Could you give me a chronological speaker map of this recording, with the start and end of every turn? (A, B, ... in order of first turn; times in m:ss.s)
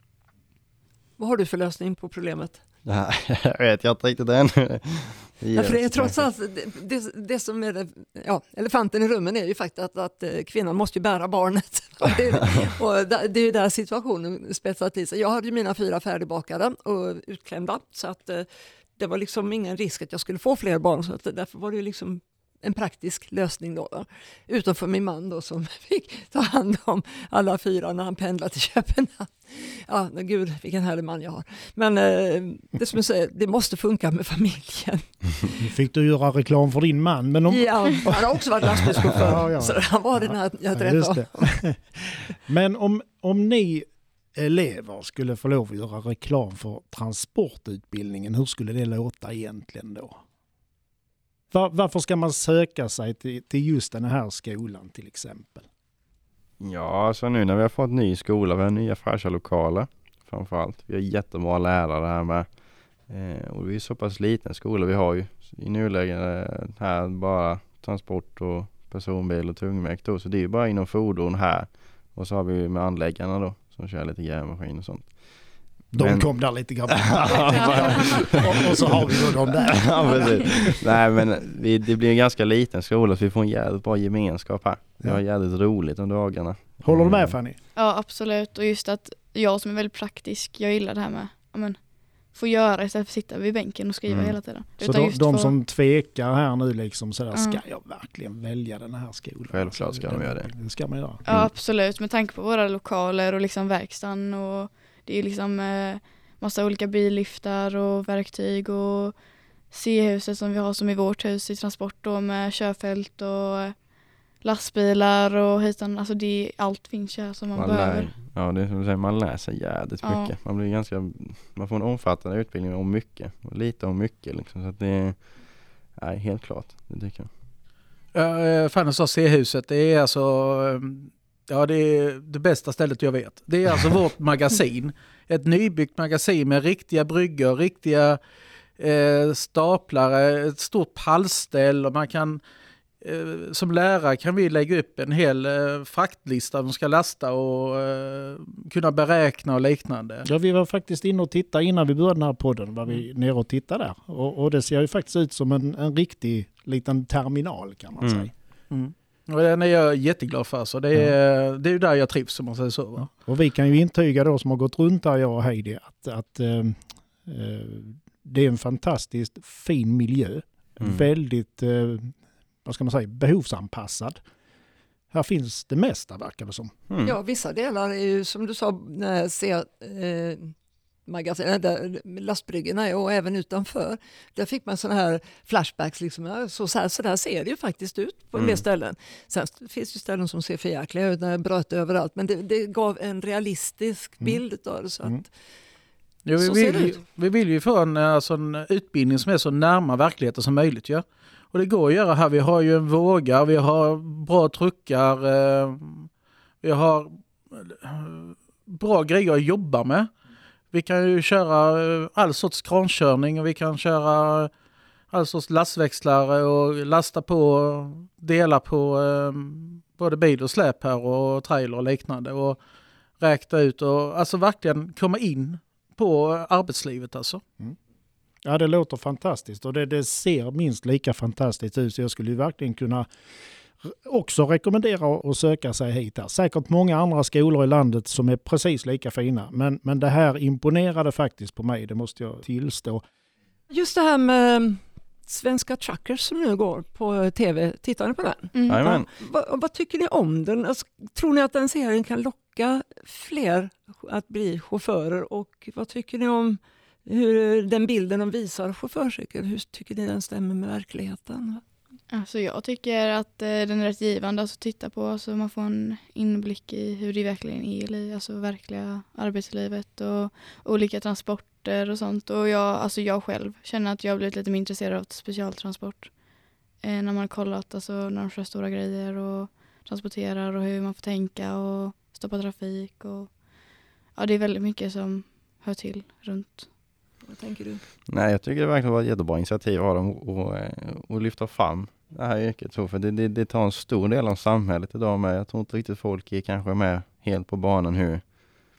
0:01.2-0:02.6 A
0:02.8-0:06.2 B
0:05.6-0:35.6 A
0:35.6-0:50.2 C
0:37.5-0:41.6 A
0:51.5-0:55.7 C
0:56.6-1:02.5 B
1:03.1-1:27.4 B
1:15.9-1:20.7 C
1:17.5-1:18.0 D
1:20.0-1:20.6 D
1:26.8-1:27.6 C
1:27.8-1:35.6 D
1:34.1-1:34.4 B
1:34.8-1:41.2 C
1:37.3-1:37.6 D
1:39.5-1:40.5 B
1:41.2-1:49.2 D
1:49.7-1:53.8 D
1:54.4-1:58.1 D
1:57.6-2:05.4 B
2:00.0-2:00.3 D
2:05.9-2:07.3 B
2:08.1-2:18.2 E
2:18.8-2:22.4 E
2:23.0-2:30.3 E
2:30.2-2:38.3 C
2:38.0-2:38.3 B
2:38.7-2:43.1 E
2:43.0-2:54.2 C
2:50.8-2:51.1 B
2:55.1-2:56.7 C
2:56.9-2:57.2 B
2:57.0-3:00.5 A
3:01.1-3:15.3 A
3:08.4-3:08.6 B
3:16.3-3:26.1 E
3:16.4-3:17.0 A
3:26.6-3:30.1 E
3:30.7-3:34.5 E
3:35.1-3:42.6 E
3:43.2-3:47.4 E
3:48.4-3:53.1 C
3:53.8-4:03.0 C
4:03.7-4:21.6 A
4:08.5-4:09.0 D
4:08.7-4:09.1 B
4:22.1-4:36.2 D
4:36.8-4:43.4 D
4:44.1-4:46.7 D
4:47.2-4:47.8 A
4:48.1-4:58.4 B